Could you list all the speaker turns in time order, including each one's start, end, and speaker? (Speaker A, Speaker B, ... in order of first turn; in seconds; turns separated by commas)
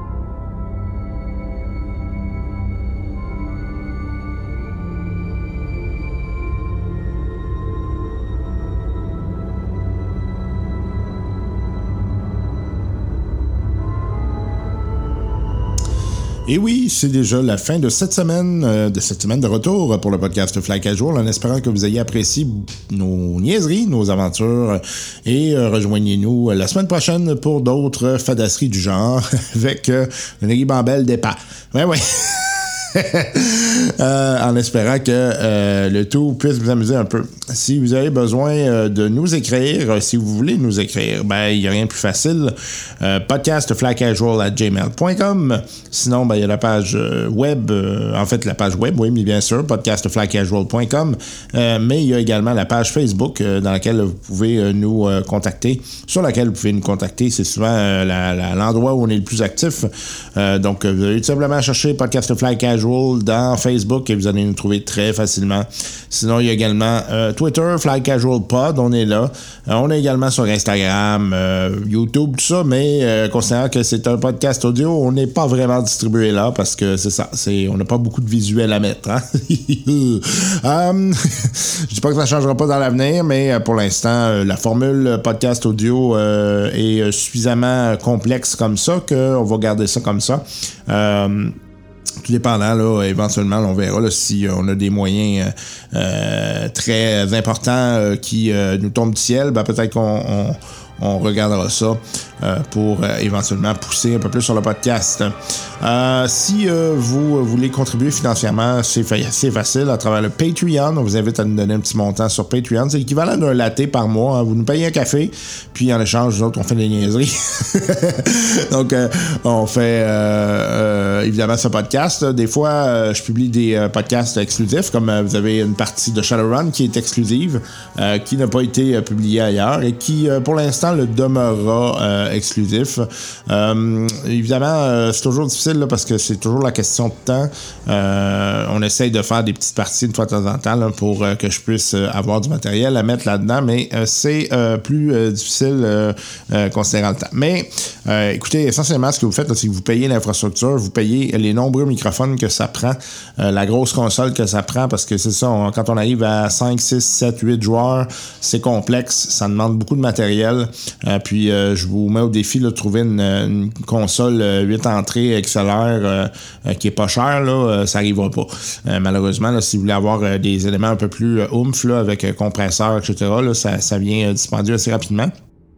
Speaker A: 16.4-91.5, Speaker A: 92.2-175.3